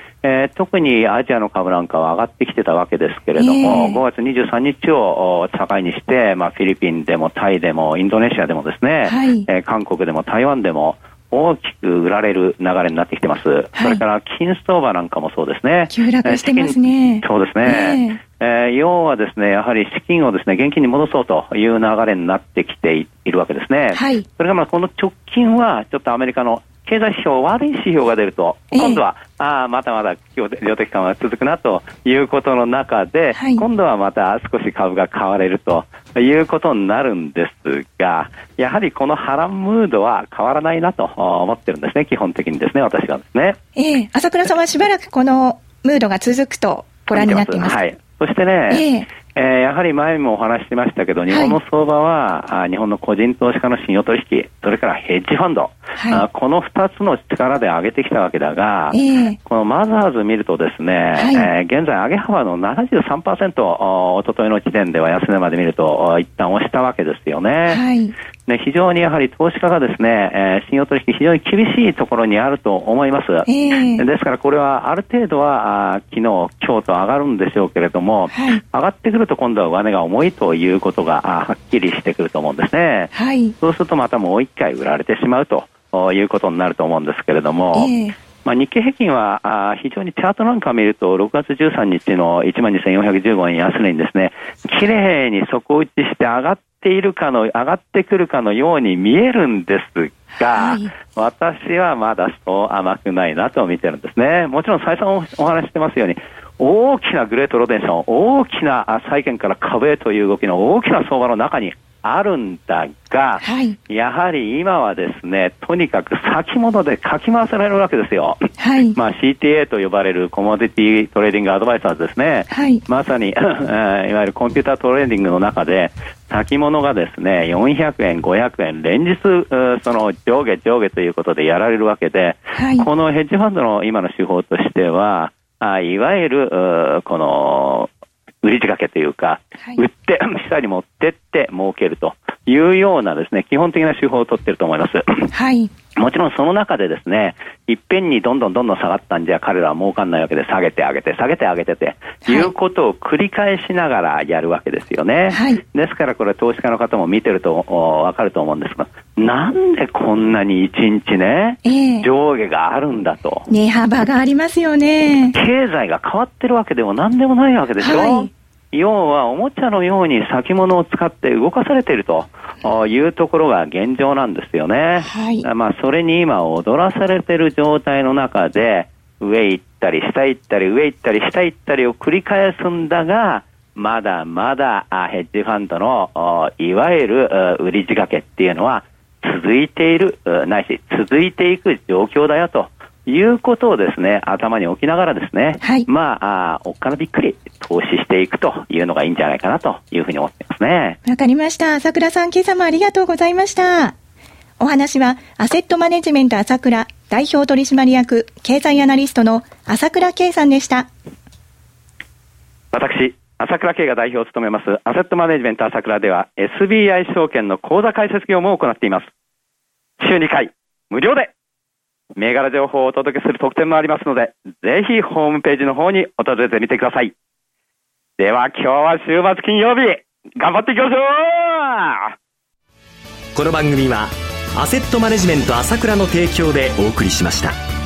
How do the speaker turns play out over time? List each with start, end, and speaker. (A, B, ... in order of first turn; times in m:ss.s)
0:00.2-0:43.6 A
0:03.4-0:04.0 B
0:09.1-0:09.5 B
0:13.8-0:14.0 B
0:15.9-0:18.2 B
0:23.9-0:24.3 B
0:28.7-0:29.0 B
0:33.3-0:33.6 B
0:43.8-0:47.8 B
0:47.1-1:07.8 A
0:48.7-0:49.1 B
0:51.3-0:51.6 B
0:56.0-0:56.2 B
0:58.9-0:59.4 B
1:01.2-1:01.5 B
1:07.7-1:08.2 B
1:08.5-1:27.9 A
1:13.5-1:14.0 B
1:18.3-1:18.6 B
1:23.1-1:23.5 B
1:27.7-1:28.2 B
1:28.4-2:17.9 A
1:40.5-1:40.9 B
1:53.4-1:53.8 B
1:58.6-1:59.0 B
2:02.5-2:02.8 B
2:12.5-2:12.9 B
2:18.4-2:25.3 A
2:25.3-2:25.7 B
2:26.0-2:43.5 A
2:35.3-2:35.6 B
2:41.6-2:42.1 B
2:43.5-2:45.4 B
2:45.3-3:21.0 A
2:47.8-2:48.3 B
2:55.0-2:55.5 B
3:15.6-3:15.9 B
3:21.1-3:24.0 B
3:24.6-3:30.9 B
3:32.7-3:39.1 A
3:40.0-3:41.3 A
3:42.2-3:47.1 A
3:48.2-3:52.1 A
3:53.4-3:57.6 C